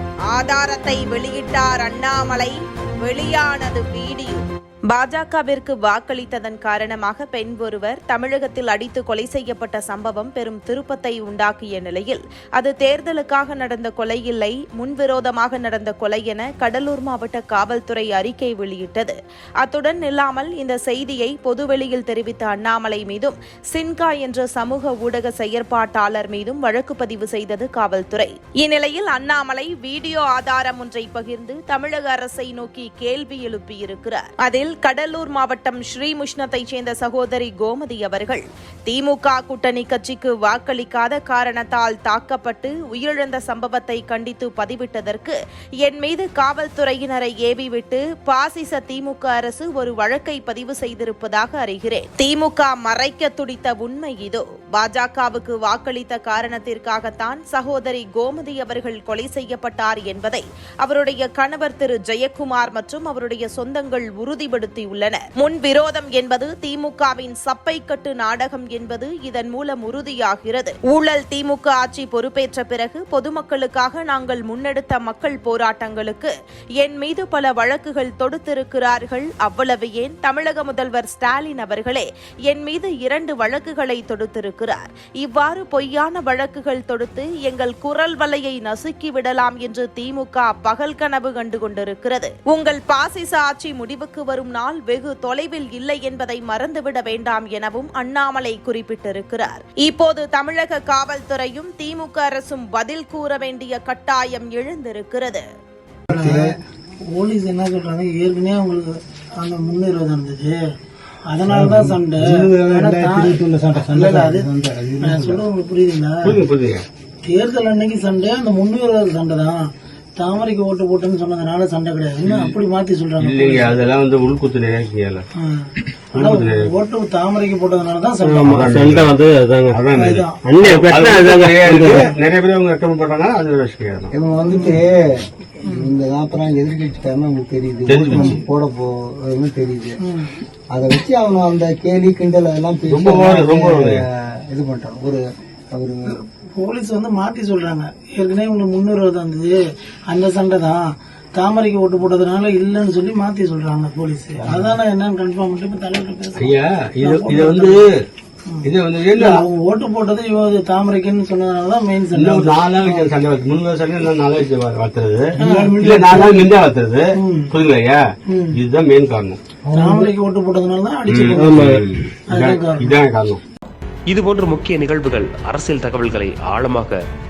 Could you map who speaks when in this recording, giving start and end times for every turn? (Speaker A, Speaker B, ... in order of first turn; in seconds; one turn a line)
Speaker A: 0.3-105.4
Speaker B: 106.1-106.5
Speaker C: 106.1-106.5
Speaker C: 107.1-110.6
Speaker C: 111.3-114.5
Speaker B: 111.5-115.4
Speaker C: 115.0-116.4
Speaker D: 116.2-116.9
Speaker C: 117.2-119.6
Speaker C: 120.2-123.8
Speaker D: 122.2-122.6
Speaker D: 123.2-125.2
Speaker C: 125.4-128.5
Speaker D: 126.1-126.8
Speaker E: 128.2-129.8
Speaker D: 128.4-129.1
Speaker D: 129.7-134.1
Speaker C: 129.9-130.4
Speaker E: 130.4-132.1
Speaker B: 134.1-140.0
Speaker C: 134.5-134.8
Speaker C: 135.7-135.9
Speaker D: 137.9-138.4
Speaker C: 138.2-138.4
Speaker C: 140.0-140.3
Speaker B: 140.7-146.1
Speaker D: 142.9-144.0
Speaker C: 146.1-157.8
Speaker B: 154.4-154.8
Speaker D: 156.4-158.0
Speaker C: 158.5-163.1
Speaker D: 158.6-159.4
Speaker D: 162.1-169.4
Speaker C: 165.4-166.5
Speaker C: 167.2-167.5
Speaker C: 168.3-168.6
Speaker C: 169.7-171.7
Speaker B: 169.7-170.1
Speaker D: 171.1-173.4
Speaker E: 171.4-171.9
Speaker C: 172.3-173.0
Speaker F: 174.1-177.0